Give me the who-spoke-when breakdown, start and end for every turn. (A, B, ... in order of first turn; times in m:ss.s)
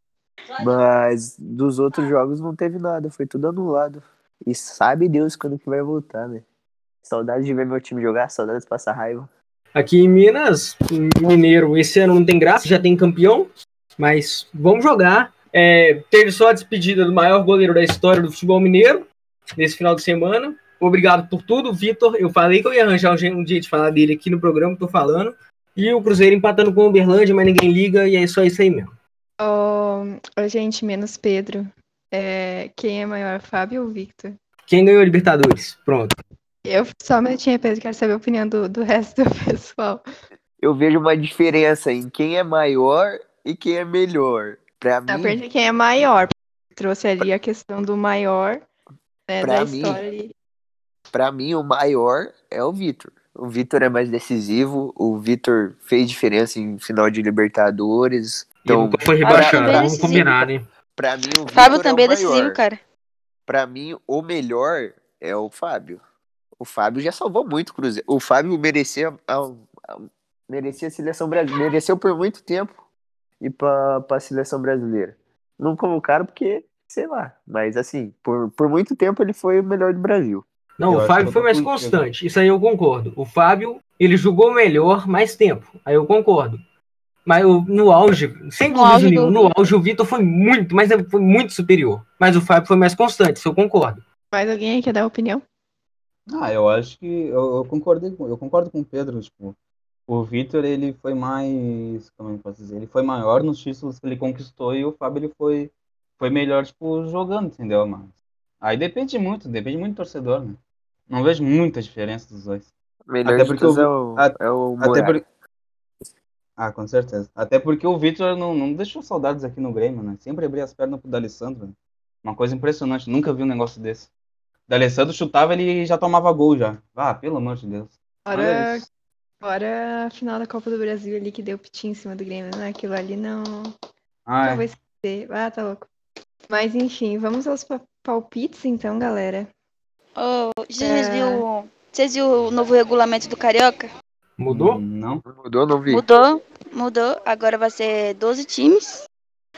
0:00.6-0:06.4 A
0:07.0-0:09.3 A
0:09.8-0:29.0 B
0:29.4-0:34.4 C
0:34.7-0:36.2 B
0:36.6-0:40.0 C
0:40.6-0:45.4 A
0:45.1-0:48.6 C
0:49.3-0:50.3 C
0:49.4-0:50.0 A
0:51.1-1:00.5 A
0:58.6-1:00.6 B
0:59.2-1:00.3 D
1:01.0-1:02.6 A
1:01.5-1:02.8 D
1:03.5-1:06.0 A
1:06.6-1:12.8 A
1:13.4-1:20.4 A
1:20.8-1:26.6 B
1:20.9-1:22.0 E
1:27.3-1:34.0 B
1:28.7-1:29.6 D
1:34.3-1:35.4 C
1:36.3-1:39.6 E
1:40.1-1:52.7 E
1:53.1-1:55.2 A
1:53.2-1:55.2 E
1:56.6-2:04.1 E
2:04.7-2:08.8 E
2:08.3-2:08.9 C
2:09.4-2:13.7 C
2:14.3-2:14.6 E
2:14.4-2:15.9 C
2:16.5-2:19.5 C
2:20.2-2:23.9 D
2:20.8-2:21.4 C
2:24.4-2:24.8 B
2:24.5-2:25.2 E
2:25.3-2:26.0 A
2:25.9-2:29.1 D